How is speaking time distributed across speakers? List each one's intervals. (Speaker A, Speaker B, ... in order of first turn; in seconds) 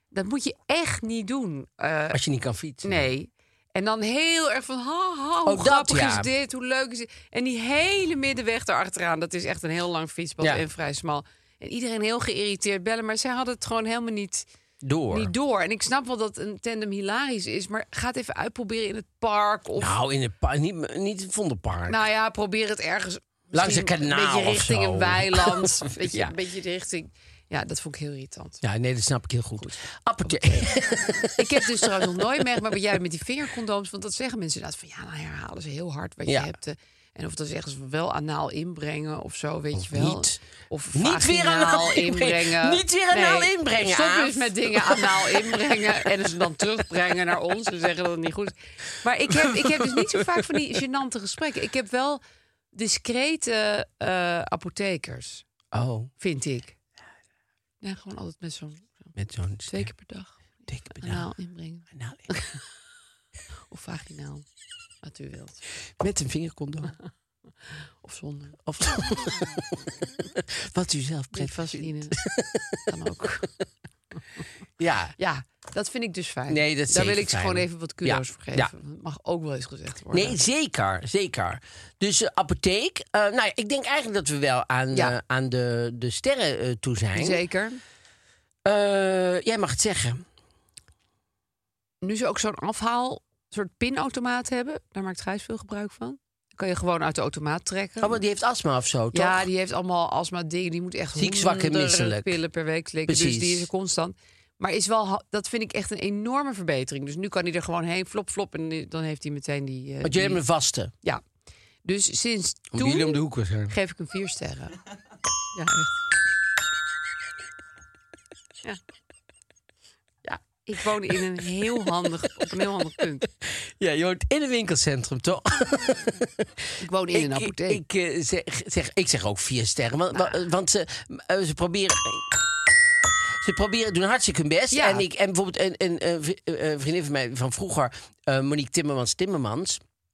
Speaker A: 0.1-2.2, 2.8-14.5, 15.1-19.9, 21.9-28.6, 29.6-30.7, 31.3-52.2, 52.7-55.4, 56.2-56.7, 57.8-59.1, 59.7-60.4, 61.0-62.6, 63.7-64.5, 65.0-65.6, 68.0-68.6, 71.3-72.1, 72.9-73.5, 75.2-80.4, 87.2-87.8, 92.0-98.2, 99.1-110.4, 111.8-114.8, 115.5-115.9, 120.5-123.2, 126.8-127.8, 130.1-130.4, 134.7-135.0
Speaker B: 2.1-3.1, 5.5-6.3, 14.8-15.3, 19.8-22.0, 23.5-26.3, 28.6-32.2, 39.8-40.4, 40.9-46.0, 49.3-50.4, 55.7-56.1, 59.1-59.9, 60.7-61.3, 61.9-62.3, 66.0-66.9, 68.7-69.6, 70.4-72.8, 74.8-75.1, 76.5-78.7, 80.1-87.4, 88.7-90.2, 98.0-99.5, 101.2-102.4, 103.1-103.7, 110.0-110.9, 112.7-113.7, 123.4-126.5, 127.1-132.3, 133.4-139.8